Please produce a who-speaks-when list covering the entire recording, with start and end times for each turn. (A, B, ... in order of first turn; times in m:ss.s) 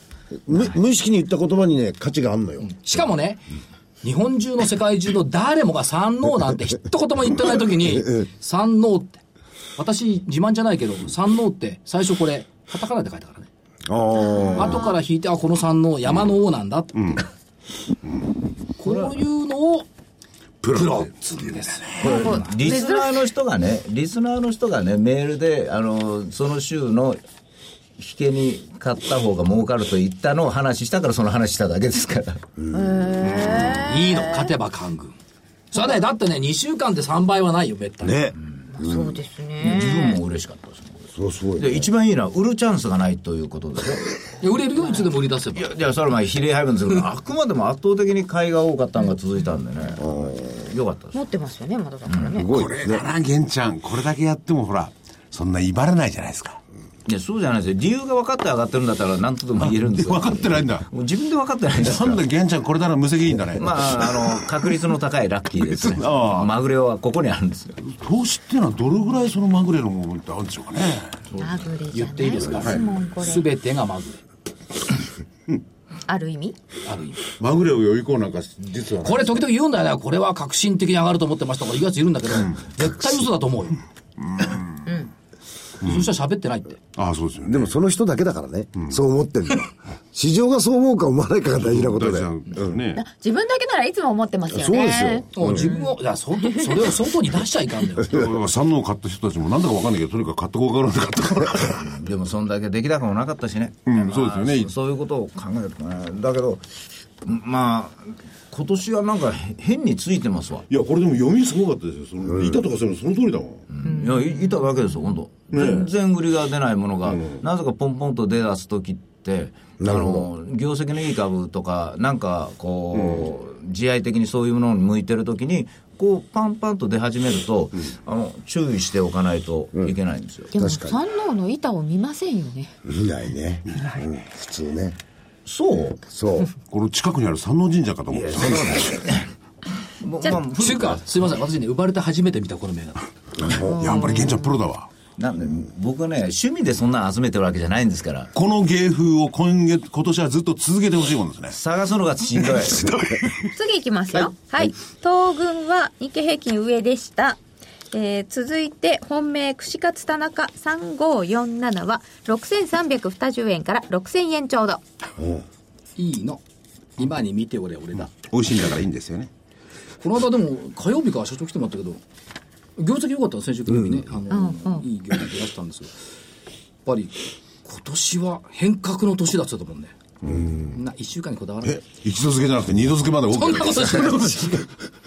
0:00.3-0:02.8 A
0:02.6-0:03.5 B
0:04.0-0:09.2 B
0:07.8-0:08.3 A
0:09.8-0:13.5 B
0:13.8-0:14.9 A
0:14.2-0:15.0 C
0:14.5-0:17.2 B
0:18.8-0:19.9 B
0:20.6-0:22.1 D
0:20.6-0:22.5 B
0:22.0-0:23.2 C
0:22.0-0:27.2 E
0:28.0-0:32.4 E
0:32.6-0:33.3 A
0:32.7-0:34.5 C
0:33.7-0:35.1 B
0:35.7-0:38.2 B
0:38.0-0:39.2 A
0:38.7-0:40.2 C
0:39.6-0:41.0 E
0:41.1-0:41.9 A
0:41.6-0:44.2 E
0:44.4-0:45.7 B
0:45.5-0:51.2 E
0:50.0-0:50.7 A
0:51.1-0:52.5 C
0:52.0-0:52.4 E
0:52.3-0:53.1 A
0:52.4-0:56.6 D
0:57.0-1:02.2 E
0:59.6-1:00.8 D
1:01.7-1:04.1 D
1:03.6-1:07.8 E
1:05.6-1:06.5 D
1:07.8-1:11.2 D
1:11.3-1:11.6 E
1:11.3-1:13.4 C
1:11.9-1:14.2 B
1:16.1-1:16.6 C
1:16.8-1:17.3 B
1:17.4-1:19.3 D
1:19.0-1:23.8 B
1:24.8-1:25.1 C
1:25.8-1:26.8 B
1:26.9-1:27.7 D
1:27.5-1:32.5 A
1:31.6-1:33.0 D
1:32.9-1:36.8 C
1:34.5-1:35.7 A
1:35.3-1:38.2 B
1:38.0-1:42.0 D
1:41.7-1:46.7 E
1:43.9-1:44.7 D
1:47.2-1:50.6 E
1:50.7-1:53.6 D
1:52.2-1:52.6 A
1:53.7-2:10.5 E
1:53.8-1:54.6 C
1:55.5-1:55.9 D
1:57.1-1:57.4 D
1:59.8-2:00.3 A
2:03.0-2:03.2 D
2:10.5-2:11.0 A
2:10.5-2:12.7 C
2:12.8-2:15.0 A
2:13.7-2:14.0 D
2:15.4-2:16.0 E
2:16.1-2:16.5 A
2:16.6-2:19.1 D
2:18.1-2:19.3 E
2:20.0-2:21.2 E
2:20.5-2:23.1 B
2:23.4-2:24.0 A
2:23.6-2:24.6 C
2:23.8-2:24.9 D
2:25.2-2:28.3 E
2:28.3-2:31.6 D
2:31.5-2:32.9 E
2:32.3-2:33.5 D
2:33.4-2:37.4 C
2:37.9-2:44.8 C
2:45.2-2:45.4 A
2:46.0-2:46.4 B
2:47.0-2:48.1 B
2:48.0-2:49.3 D
2:50.0-2:52.0 B
2:52.8-2:55.9 B
2:53.7-2:54.0 A
2:54.3-2:54.8 C
2:56.8-2:59.9 B
3:00.2-3:00.8 D
3:00.7-3:01.8 B
3:01.6-3:04.6 D
3:03.3-3:04.6 B